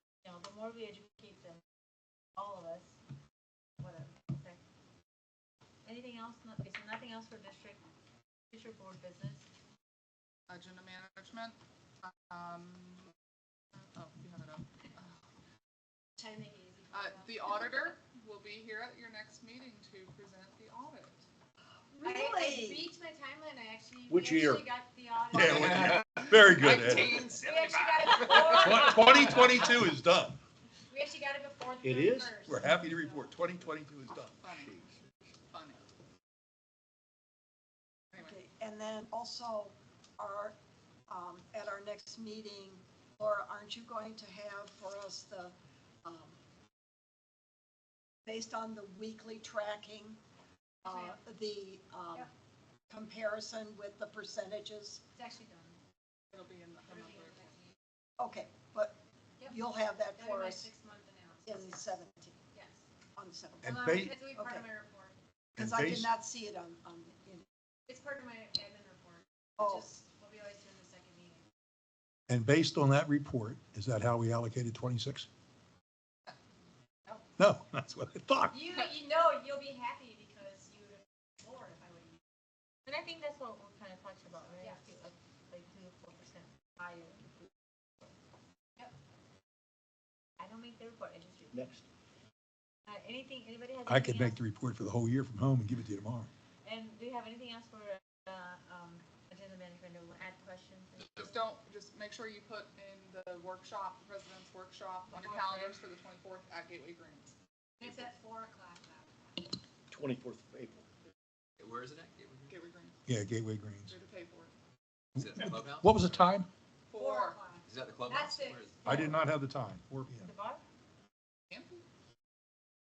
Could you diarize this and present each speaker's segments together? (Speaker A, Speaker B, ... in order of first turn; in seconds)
Speaker A: 0.2-1.6, 2.4-3.0, 3.8-4.6, 5.8-7.8, 8.5-9.5, 82.8-86.6, 90.4-91.7, 92.8-94.4, 96.6-101.4, 105.1-105.8, 120.2-120.6
Speaker B: 10.5-13.1, 13.7-15.1, 16.9-21.2, 34.4-34.7, 35.5-35.9, 56.3-57.5, 101.2-107.3, 112.5-113.0, 113.8-114.5, 116.9-117.4, 121.5-121.8
Speaker C: 16.2-17.9, 22.0-29.4, 30.9-33.3, 50.8-51.3, 55.1-55.8, 56.9-57.7, 59.4-61.9, 62.5-62.8, 63.6-65.1, 67.9-71.5, 78.5-82.2, 86.8-87.2, 107.8-109.4, 116.9-119.2
Speaker D: 22.0-22.9, 38.1-40.5, 41.1-46.4, 48.2-50.2, 50.8-52.3, 52.9-55.0, 58.2-60.7, 61.4-62.4, 63.1-64.7, 65.6-67.4, 69.6-70.0
Speaker E: 24.1-24.7, 31.8-32.4, 91.5-91.8, 109.9-110.9
Speaker F: 25.3-27.3, 28.4-30.4, 32.4-34.8, 63.6-64.2, 65.5-66.1, 72.3-75.3, 77.4-78.6, 93.8-96.3, 113.0-113.9, 115.2-116.5, 118.8-120.3
Speaker G: 26.2-29.5, 111.6-112.6, 115.2-116.1, 117.6-118.8